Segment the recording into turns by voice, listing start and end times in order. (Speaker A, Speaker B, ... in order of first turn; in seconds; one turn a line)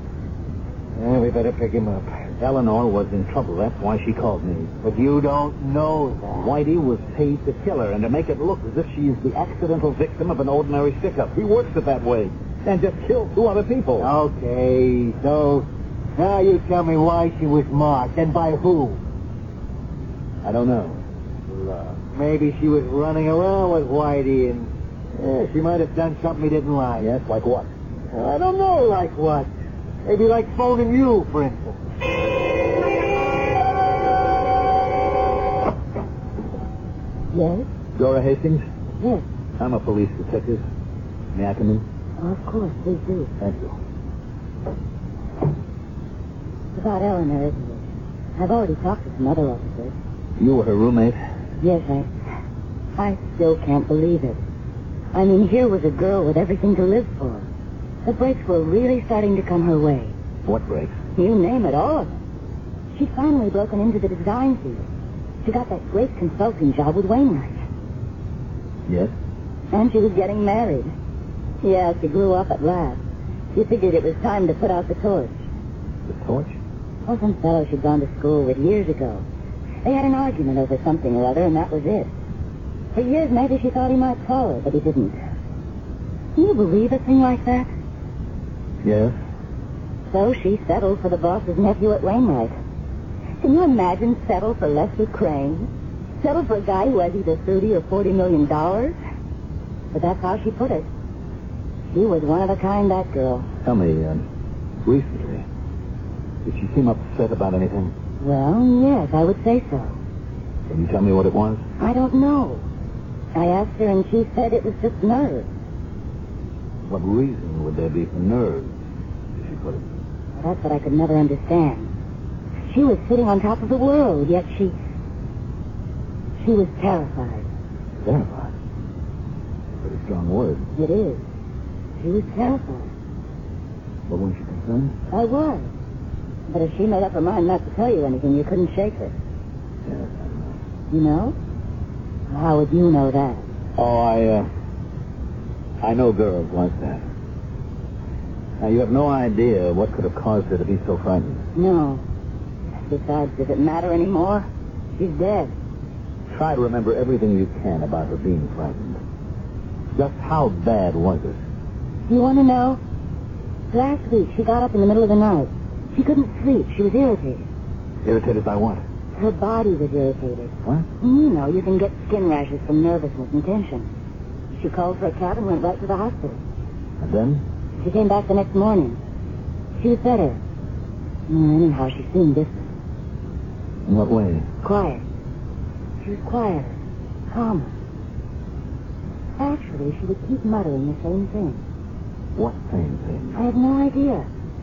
Speaker A: 0.9-2.1
Speaker B: 2.4-4.7
Speaker A: 4.8-6.5
Speaker B: 6.3-14.1
Speaker A: 14.0-19.0
Speaker B: 20.4-21.0
Speaker A: 22.1-27.1
Speaker B: 27.0-27.7
Speaker A: 28.1-29.5
Speaker A: 30.1-31.8
Speaker C: 37.3-37.7
Speaker B: 38.0-38.6
Speaker B: 39.6-40.6
Speaker B: 41.3-41.9
Speaker C: 42.2-43.3
Speaker B: 43.4-43.8
Speaker C: 46.7-50.0
Speaker B: 50.4-51.2
Speaker C: 51.6-52.1
Speaker C: 53.0-54.4
Speaker C: 55.1-57.5
Speaker C: 58.0-60.1
Speaker B: 60.5-61.0
Speaker C: 61.2-62.2
Speaker C: 62.9-64.9
Speaker C: 65.5-67.6
Speaker B: 68.9-69.1
Speaker C: 69.7-70.9
Speaker C: 71.6-73.0
Speaker C: 73.5-75.4
Speaker B: 76.1-76.6
Speaker C: 77.1-79.2
Speaker C: 79.8-82.1
Speaker C: 83.0-85.2
Speaker C: 86.4-87.7
Speaker B: 88.8-89.2
Speaker C: 90.1-92.5
Speaker C: 93.4-95.7
Speaker C: 96.2-99.0
Speaker C: 99.9-100.9
Speaker C: 101.9-103.5
Speaker B: 103.6-104.3
Speaker B: 104.8-105.5
Speaker B: 106.4-107.9
Speaker C: 108.2-110.0
Speaker B: 110.7-111.6
Speaker C: 111.8-112.7
Speaker C: 113.3-115.5
Speaker B: 116.8-118.8
Speaker B: 119.4-119.9
Speaker C: 120.4-121.9
Speaker C: 122.7-124.8
Speaker C: 126.4-127.5
Speaker B: 128.0-128.5
Speaker B: 129.8-130.7
Speaker C: 130.8-131.2
Speaker C: 132.0-132.9
Speaker B: 134.1-134.9
Speaker C: 135.1-135.7
Speaker C: 136.5-139.1
Speaker B: 139.9-140.6
Speaker C: 140.9-141.4
Speaker C: 142.3-143.4
Speaker B: 143.8-144.5
Speaker B: 145.8-147.1
Speaker B: 148.6-151.4
Speaker C: 151.6-152.0
Speaker C: 152.9-155.5
Speaker B: 156.3-159.0
Speaker B: 159.9-161.4
Speaker C: 162.1-162.8
Speaker C: 163.7-167.5
Speaker B: 168.0-168.8
Speaker C: 169.2-173.9
Speaker C: 174.5-176.4
Speaker B: 177.0-177.4
Speaker C: 177.8-179.0
Speaker C: 179.8-180.4
Speaker C: 181.3-182.7
Speaker B: 183.9-184.5
Speaker C: 184.6-185.0
Speaker C: 186.0-186.8
Speaker C: 187.3-187.7
Speaker C: 189.4-191.6
Speaker B: 192.4-193.4
Speaker C: 193.3-194.3